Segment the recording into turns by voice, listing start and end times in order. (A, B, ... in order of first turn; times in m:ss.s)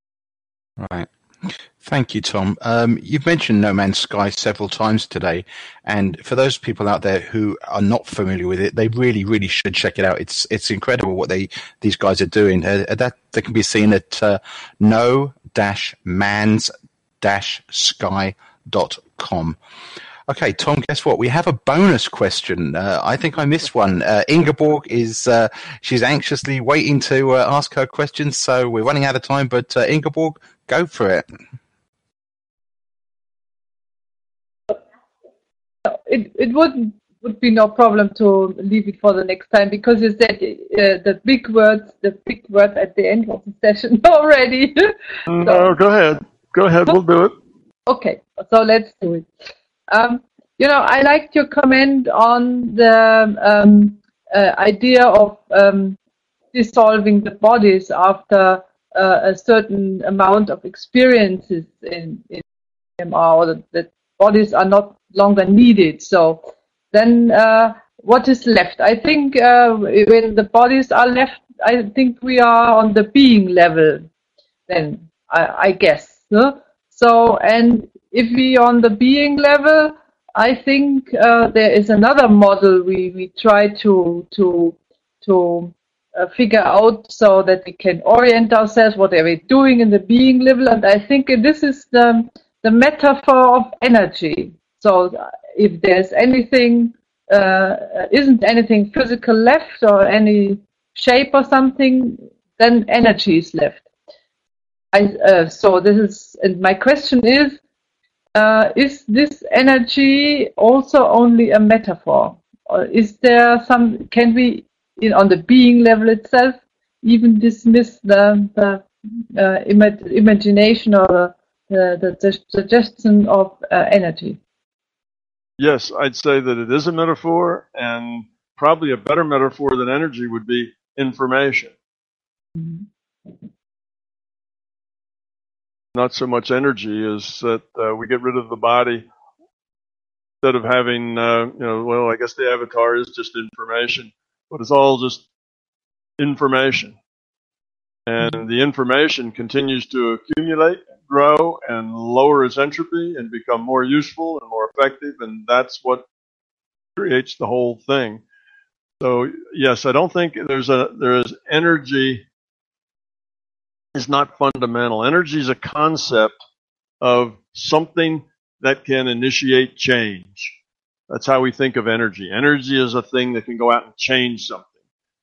0:00.8-0:19.6 A
0:20.3-0:31.2 A
0:35.9-0:45.7 B
0:45.3-0:47.3 C
0:47.9-0:49.3 B
0:49.9-0:56.0 B
0:56.5-1:02.4 B
1:03.0-1:06.4 B
1:06.9-1:14.1 B
1:14.7-1:43.8 B
1:44.9-1:47.6 B
1:48.4-2:04.4 B
2:05.6-2:11.7 C
2:12.6-2:12.8 B
2:16.0-2:19.1 C
2:20.4-2:25.2 C
2:26.2-2:27.0 C
2:28.1-2:36.1 C
2:37.0-2:38.2 C
2:39.0-2:42.2 C
2:44.0-2:46.4 C
2:47.0-2:50.6 C
2:51.1-2:54.7 C